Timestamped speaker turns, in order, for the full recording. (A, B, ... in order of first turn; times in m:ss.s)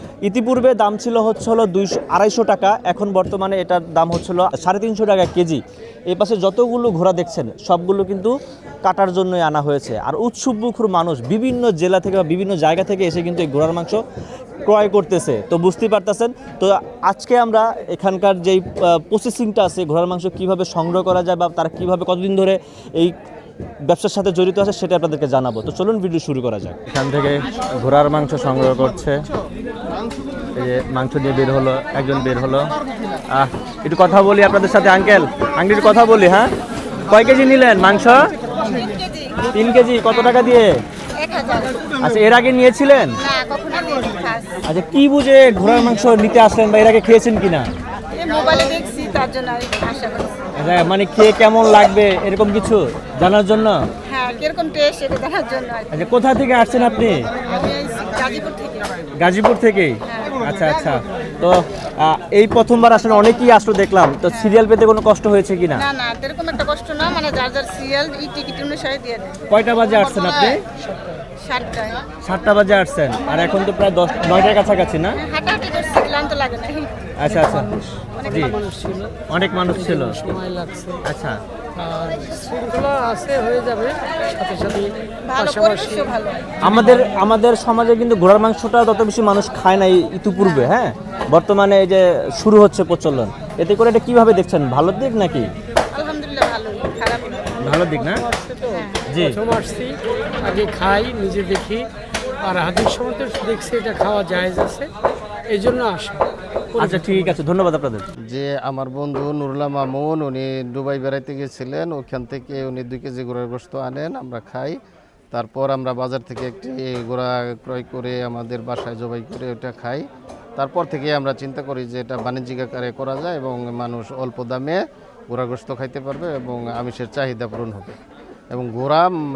0:00.2-0:14.0 A
0:14.6-0:23.2 A
0:23.8-0:29.2 A
0:30.5-0:32.7 A
0:33.3-0:36.5 A
0:37.1-0:38.3 A
0:38.6-0:39.5 B
0:39.5-0:40.8 A
0:41.2-0:41.9 B
0:42.0-0:43.2 A
0:43.2-0:44.6 B
0:44.6-0:47.7 A
0:48.1-0:50.5 B
0:50.6-0:53.8 A
0:54.0-0:56.0 B
0:55.9-0:57.3 A
0:57.4-0:59.0 B
0:59.2-1:05.9 A
1:00.1-1:00.4 B
1:05.7-1:10.6 B
1:09.5-1:10.6 A
1:10.7-1:11.3 C
1:11.4-1:12.0 B
1:12.2-1:15.2 A
1:15.1-1:17.1 B
1:17.2-1:17.7 A
1:17.3-1:21.0 C
1:18.2-1:18.5 B
1:18.2-1:18.6 A
1:19.3-1:20.4 A
1:21.0-1:21.4 A
1:21.7-1:26.1 C
1:25.2-1:26.6 B
1:26.6-1:35.5 A
1:26.6-1:27.1 C
1:30.4-1:30.7 B
1:35.9-1:37.6 B
1:37.6-1:38.2 A
1:37.9-1:41.9 C
1:38.7-1:39.1 B
1:39.1-1:39.4 A
1:42.4-1:44.9 C
1:45.5-1:47.4 C
1:46.8-1:48.1 A
1:48.2-1:54.8 D
1:55.3-2:00.0 D
2:00.6-2:08.0 D
2:08.5-2:09.2 D